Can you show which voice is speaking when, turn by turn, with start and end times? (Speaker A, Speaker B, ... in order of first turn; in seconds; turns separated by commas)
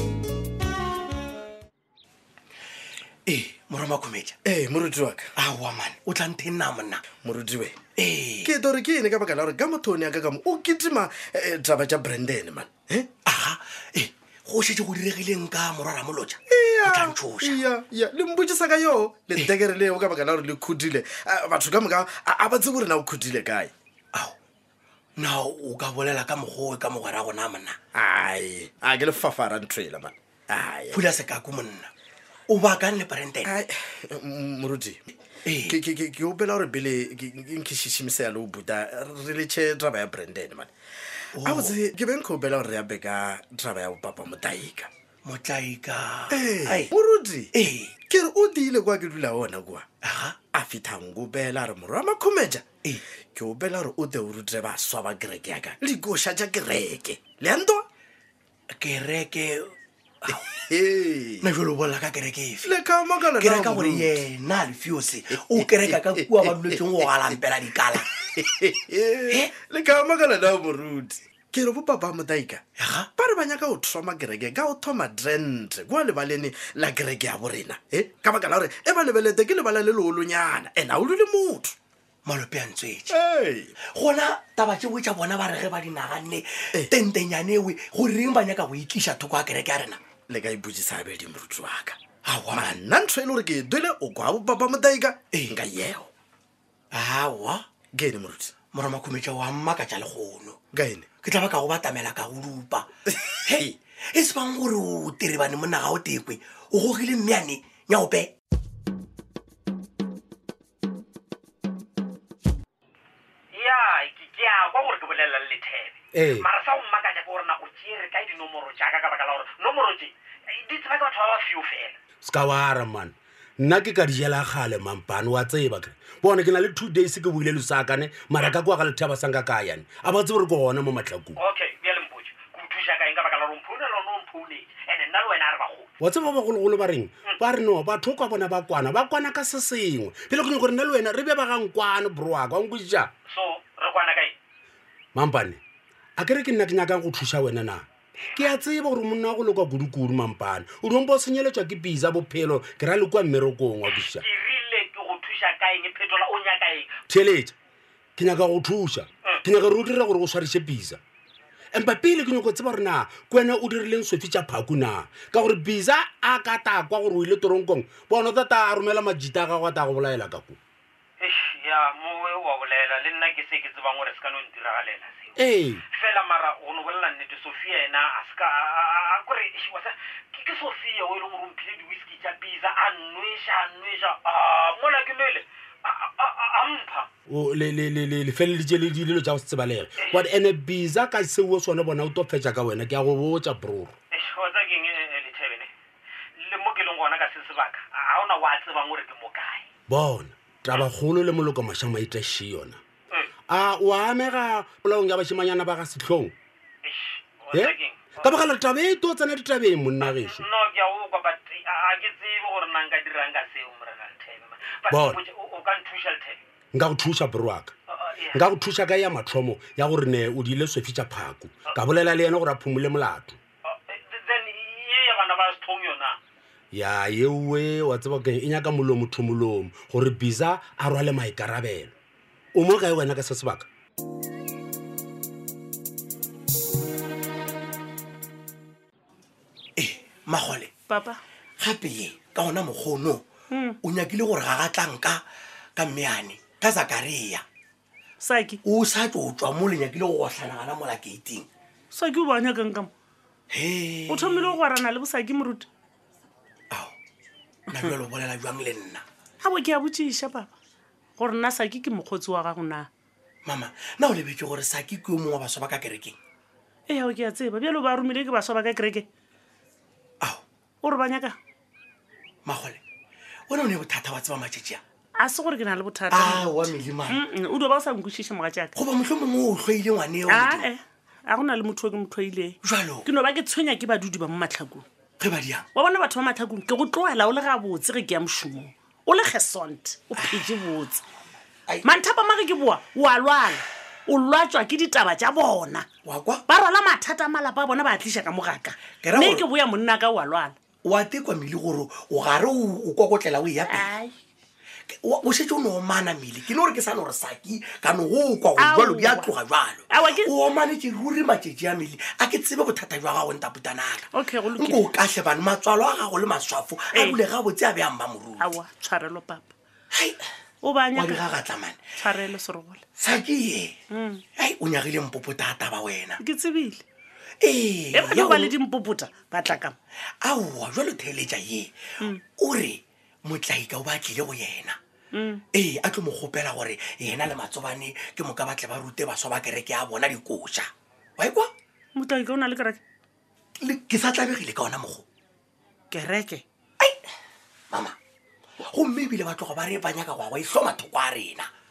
Speaker A: 3.2-4.4, Speaker B: 4.4-5.3, Speaker A: 5.3-7.0, Speaker B: 7.2-7.8, Speaker A: 8.0-8.5, Speaker B: 8.4-13.1, Speaker A: 13.2-17.6, Speaker B: 16.5-23.7, Speaker A: 25.2-27.8, Speaker B: 27.9-31.1, Speaker A: 30.9-31.9, Speaker A: 32.5-33.5, Speaker B: 33.4-35.0, Speaker A: 35.4-35.8, Speaker B: 35.6-40.7, Speaker A: 41.4-41.8, Speaker B: 41.4-44.9, Speaker A: 45.2-46.9, Speaker B: 46.3-47.5, Speaker A: 47.5-47.9, Speaker B: 48.1-49.9, Speaker A: 50.0-50.4, Speaker B: 50.5-52.6, Speaker B: 53.2-57.8, Speaker A: 58.8-59.7, Speaker B: 60.3-61.5, Speaker A: 61.4-62.7, Speaker B: 62.6-64.2, Speaker A: 63.4-68.1, Speaker B: 65.4-67.4, Speaker B: 68.3-72.6, Speaker A: 72.8-73.1, Speaker B: 73.1-81.7, Speaker A: 82.2-83.2, Speaker B: 83.1-83.7, Speaker A: 83.9-90.0, Speaker B: 90.3-92.0, Speaker A: 92.2-92.8, Speaker B: 92.5-96.1, Speaker A: 95.3-95.6, Speaker A: 96.9-97.6, Speaker B: 97.9-98.5, Speaker A: 98.7-100.6, Speaker B: 100.7-101.0, Speaker A: 101.2-102.9, Speaker A: 103.4-108.3, Speaker C: 113.5-122.0, Speaker D: 116.1-116.5, Speaker D: 122.2-131.4, Speaker C: 131.4-135.9, Speaker D: 136.0-143.1, Speaker C: 143.3-144.3, Speaker D: 145.1-145.6, Speaker D: 146.2-154.2, Speaker C: 153.9-157.0, Speaker D: 157.1-157.5, Speaker D: 158.2-161.0, Speaker D: 161.7-170.6, Speaker C: 171.2-175.3, Speaker D: 175.4-175.8, Speaker C: 175.9-187.1, Speaker D: 187.3-193.9, Speaker C: 190.0-190.3, Speaker C: 194.1-195.7, Speaker C: 196.4-199.6, Speaker D: 199.9-202.8, Speaker D: 203.5-206.3, Speaker C: 206.8-208.5, Speaker D: 207.5-210.4, Speaker C: 210.0-216.4, Speaker D: 214.9-215.2, Speaker D: 216.7-217.7, Speaker C: 217.9-218.4, Speaker D: 218.3-223.4, Speaker C: 223.7-226.2, Speaker D: 226.7-231.9, Speaker D: 232.5-233.7, Speaker A: 239.8-240.7, Speaker E: 240.9-241.2, Speaker A: 241.6-243.2, Speaker E: 243.5-243.8, Speaker A: 243.8-245.2, Speaker A: 245.8-247.4, Speaker E: 248.2-248.6, Speaker A: 248.6-251.5, Speaker E: 251.9-252.9, Speaker A: 253.5-254.6, Speaker E: 254.1-255.7, Speaker A: 256.7-256.9, Speaker A: 257.7-259.0, Speaker E: 259.4-260.5, Speaker E: 261.2-262.9, Speaker A: 263.4-266.1, Speaker E: 266.9-269.1, Speaker E: 270.8-271.4, Speaker A: 272.4-272.8, Speaker A: 273.5-274.8, Speaker E: 275.1-278.7, Speaker A: 276.1-277.2, Speaker A: 278.7-280.7, Speaker E: 280.3-284.9, Speaker A: 282.6-283.1, Speaker A: 285.2-285.6, Speaker E: 285.7-291.0, Speaker E: 291.8-295.9, Speaker A: 296.0-296.4, Speaker E: 296.5-300.5, Speaker A: 299.0-299.4, Speaker A: 300.8-303.9, Speaker E: 303.7-304.1, Speaker A: 304.9-318.5, Speaker E: 308.6-309.3, Speaker E: 309.9-310.3, Speaker E: 314.1-314.9, Speaker E: 316.9-317.2, Speaker E: 318.4-319.5, Speaker A: 319.9-320.2, Speaker E: 320.6-321.3, Speaker A: 320.9-321.8, Speaker E: 322.0-322.8, Speaker A: 323.0-323.7, Speaker E: 323.9-324.2, Speaker A: 324.4-326.2, Speaker E: 326.2-326.8, Speaker A: 327.4-328.5, Speaker E: 327.9-329.8, Speaker A: 330.2-331.7, Speaker A: 332.4-334.8, Speaker E: 335.1-335.4, Speaker A: 335.5-341.5, Speaker E: 341.9-342.8, Speaker A: 343.6-345.1, Speaker E: 345.9-346.4, Speaker A: 347.7-347.9, Speaker A: 348.6-351.5